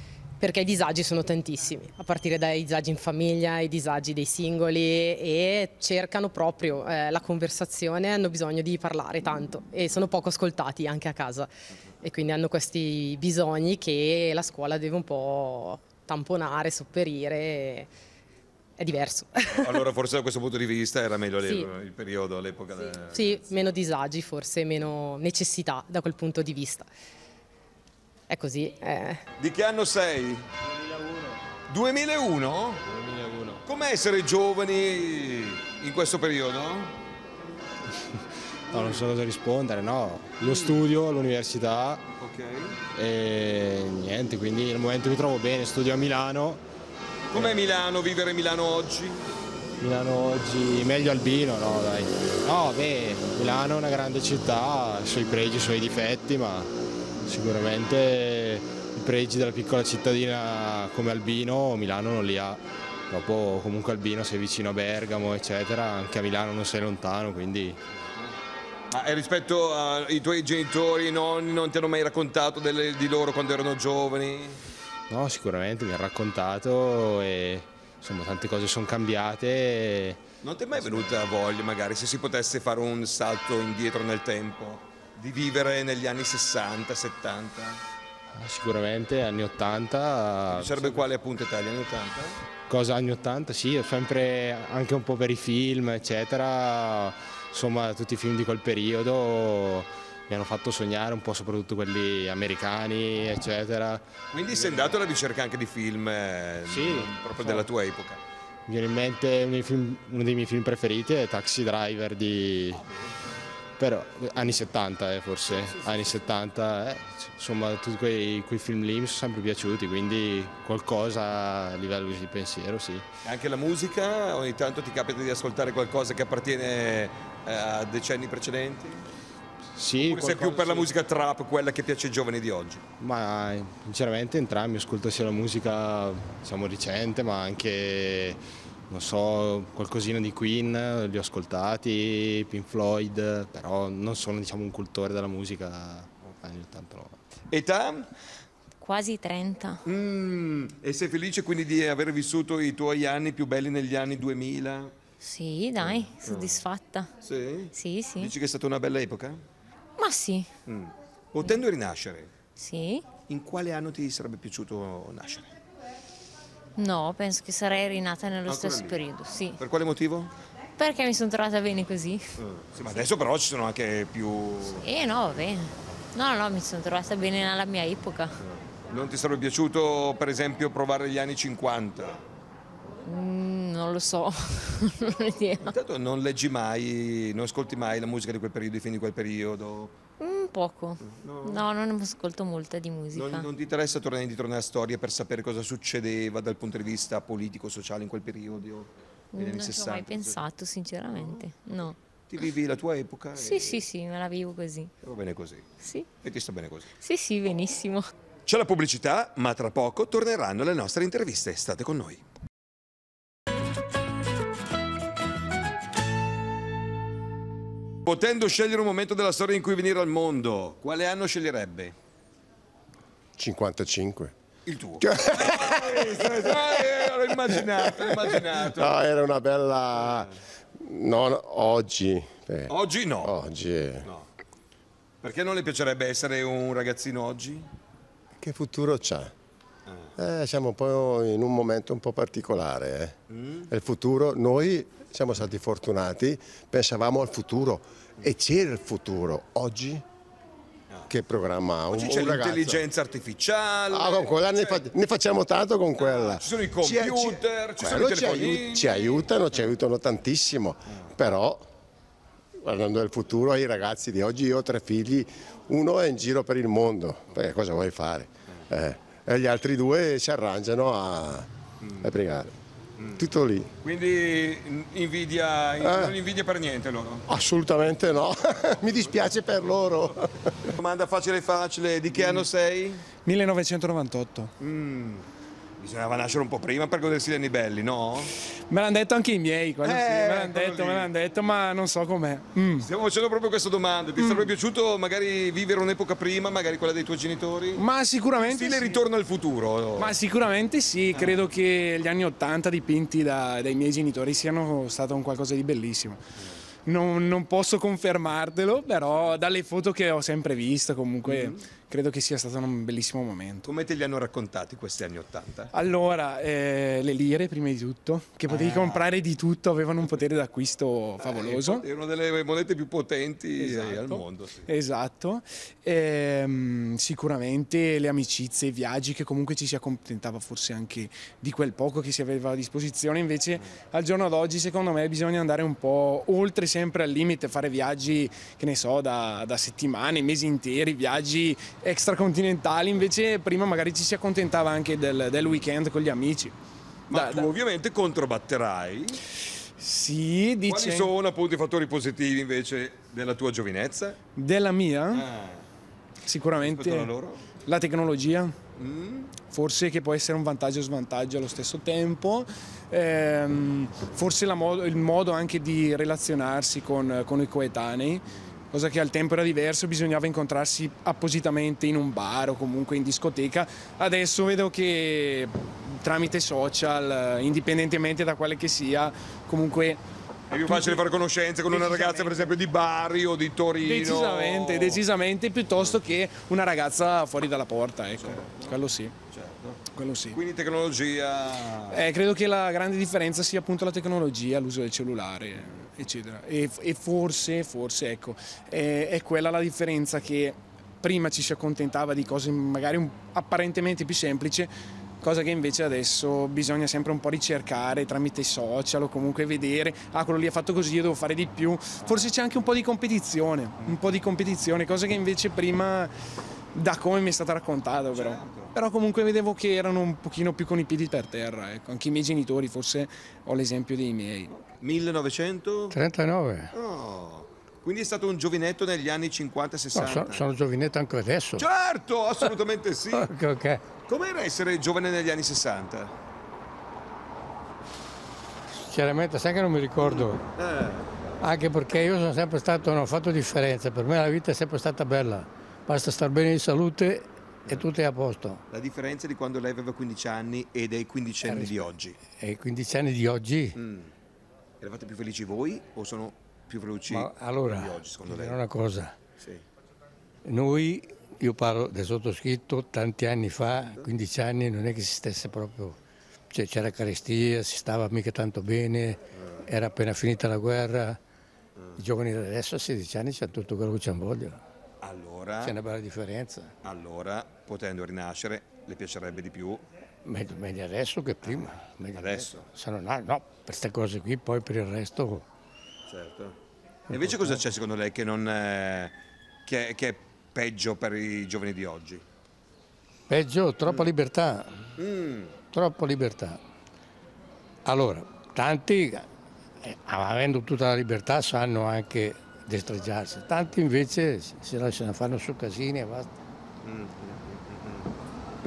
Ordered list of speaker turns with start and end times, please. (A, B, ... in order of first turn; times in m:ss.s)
0:00.4-0:11.5 A
0:12.0-0:17.9 A
0:18.8-0:19.8 A
0:19.4-0:23.4 B
0:21.4-0:21.7 A
0:23.1-0:26.9 A
0:28.3-0:29.2 A
0:29.4-0:30.5 B
0:31.0-0:31.3 C
0:31.7-0:32.8 B
0:32.9-0:33.6 C
0:33.6-0:37.0 B
0:38.1-0:42.1 C
0:38.7-0:39.0 B
0:42.2-0:42.8 B
0:42.9-0:46.6 C
0:47.3-0:49.2 B
0:49.8-0:56.7 C
0:57.2-1:07.8 C
1:08.0-1:08.3 B
1:08.9-1:14.6 B
1:15.1-1:21.2 C
1:20.4-1:27.8 B
1:28.3-1:31.1 C
1:30.5-1:32.4 B
1:32.7-1:45.0 C
1:44.3-1:48.2 B
1:46.7-1:47.7 C
1:48.7-1:52.8 C
1:52.7-1:53.2 B
1:53.8-2:03.0 C
1:55.5-1:56.2 B
2:03.2-2:09.0 B
2:09.7-2:10.9 C
2:10.0-2:12.8 B
2:13.0-2:27.2 C
2:27.5-2:28.1 B
2:28.8-2:29.8 D
2:29.8-2:34.9 B
2:35.2-2:37.1 D
2:35.8-2:36.6 B
2:37.2-2:39.4 B
2:37.7-2:38.3 D
2:40.0-2:40.5 D
2:40.6-2:42.3 B
2:42.6-2:43.1 D
2:43.3-2:45.5 B
2:46.8-2:49.6 D
2:48.5-2:49.0 B
2:49.6-2:50.3 B
2:50.8-2:53.0 D
2:52.4-2:54.8 B
2:54.8-2:58.4 D
2:58.4-3:02.2 B
3:03.0-3:05.7 D
3:05.6-3:10.0 B
3:10.2-3:13.5 D
3:11.0-3:11.6 B
3:13.1-3:20.4 B
3:19.3-3:22.0 D
3:21.1-3:21.4 B
3:22.2-3:23.8 B
3:23.4-3:24.9 D
3:25.0-3:26.9 B
3:25.8-3:26.1 D
3:27.0-3:28.1 D
3:28.5-3:32.2 B
3:38.0-3:41.9 B
3:43.4-3:44.3 E
3:44.6-3:49.0 B
3:45.0-3:54.1 E
3:50.0-3:50.3 B
3:52.7-3:53.3 B
3:55.2-3:57.7 B
3:58.4-3:59.3 E
4:00.2-4:10.0 E
4:03.3-4:03.7 B
4:11.1-4:12.8 E
4:11.9-4:14.8 B
4:13.9-4:21.6 E
4:16.0-4:19.6 B
4:22.6-4:31.5 E
4:31.8-4:32.1 B
4:32.0-4:32.5 E
4:33.0-4:33.2 B
4:33.2-4:33.7 E
4:33.8-4:37.2 B
4:35.8-4:36.1 E
4:37.3-4:40.7 E
4:38.8-4:39.2 B
4:40.8-4:43.0 B
4:43.2-4:44.5 F
4:44.6-4:45.3 B
4:45.8-4:48.3 B
4:48.7-4:52.9 F
4:49.8-4:51.1 B
4:52.8-4:57.8 B
4:54.2-4:54.5 F
4:57.8-4:59.0 F
4:58.4-5:00.2 B
5:00.0-5:06.2 F
5:01.1-5:01.4 B
5:06.8-5:13.7 F
5:11.2-5:11.6 B
5:13.6-5:15.7 B
5:15.7-5:21.8 F
5:18.5-5:19.1 B
5:21.2-5:24.6 B
5:23.6-5:46.5 F
5:47.1-5:47.5 F
5:47.1-5:49.2 B
5:49.8-5:51.1 F
5:50.6-5:54.2 B
5:54.4-5:55.2 F
5:55.1-5:55.6 B
5:56.2-5:58.5 F
5:56.6-5:57.5 B
5:58.8-5:59.4 B
5:59.4-6:20.0 F
6:20.5-6:25.0 B
6:20.6-6:21.1 F
6:21.7-6:22.6 F
6:23.8-6:29.1 F
6:28.1-6:32.0 B
6:29.9-6:30.4 F
6:31.9-6:56.1 F
6:56.7-7:04.5 F
6:58.1-6:58.7 B
7:04.5-7:06.0 B
7:05.9-7:06.7 G
7:06.7-7:10.4 B
7:09.9-7:11.6 G
7:11.6-7:13.3 B
7:13.1-7:13.8 G
7:14.1-7:16.1 B
7:18.7-7:20.4 G
7:20.0-7:21.3 B
7:21.4-7:28.6 G
7:28.7-7:32.2 B
7:31.4-7:33.8 G
7:33.7-7:34.1 B
7:34.8-7:38.6 B
7:37.1-7:39.2 G
7:40.4-7:46.0 G
7:46.5-7:51.2 G
7:49.4-7:49.6 B
7:52.0-7:54.6 G
7:55.0-7:55.8 B
7:55.6-7:56.7 G
7:56.8-7:59.8 B
8:00.2-8:05.4 G
8:01.4-8:02.7 B
8:06.1-8:06.6 B
8:07.1-8:07.6 G
8:07.1-8:09.1 B
8:09.6-8:12.2 B
8:13.3-8:14.9 G
8:15.0-8:15.5 B
8:15.7-8:16.6 G
8:17.8-8:19.3 G
8:19.8-8:26.3 G
8:26.8-8:28.1 B